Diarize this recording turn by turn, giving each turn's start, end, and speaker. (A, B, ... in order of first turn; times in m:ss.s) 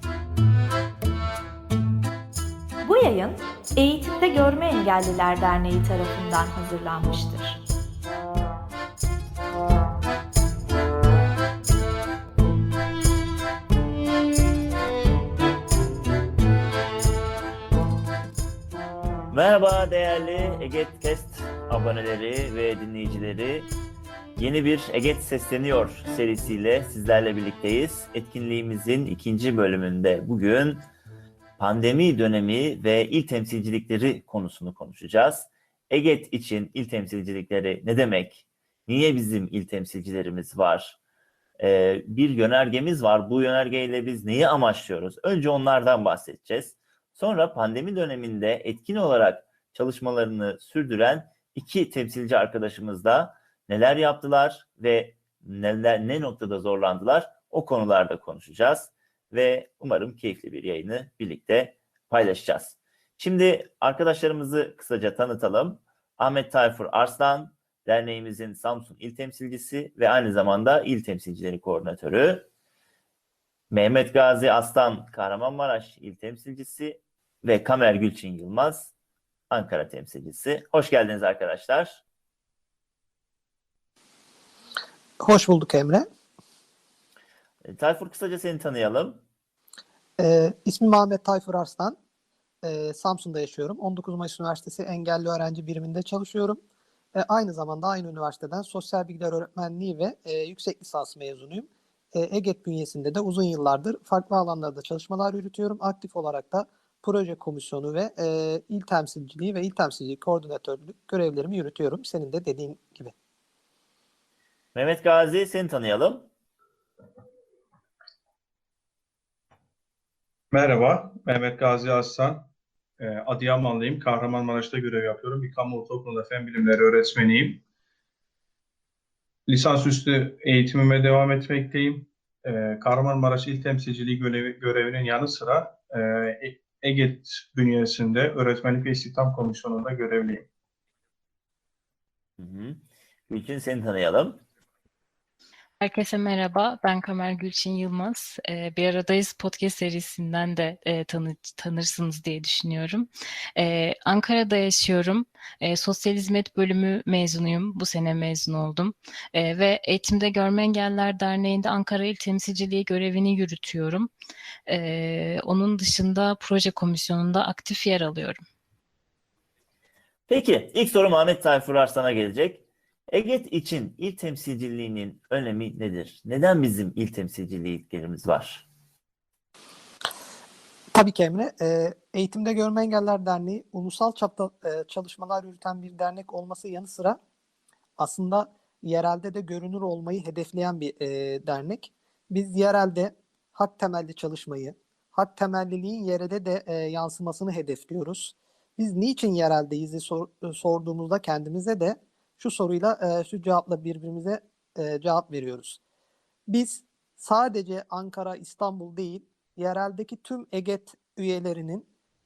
0:02.8-0:07.6 A
0:19.3-0:23.7 B
0:24.4-0:30.9 B
0:31.6-0:41.0 B
0:41.6-1:12.5 B
1:13.7-1:18.9 B
1:19.5-1:22.0 B
1:25.2-1:26.1 C
1:27.6-1:29.2 B
1:30.2-1:32.0 C
1:32.6-1:36.6 C
1:37.2-1:53.1 C
1:54.8-1:56.3 B
2:00.5-2:02.5 D
2:03.0-2:07.6 D
2:09.5-2:20.5 D
2:22.4-2:24.4 B
2:25.8-2:44.1 E
2:44.7-2:48.4 E
2:50.3-2:58.6 B
3:00.9-3:07.2 C
3:08.0-3:25.8 C
3:26.5-3:31.9 C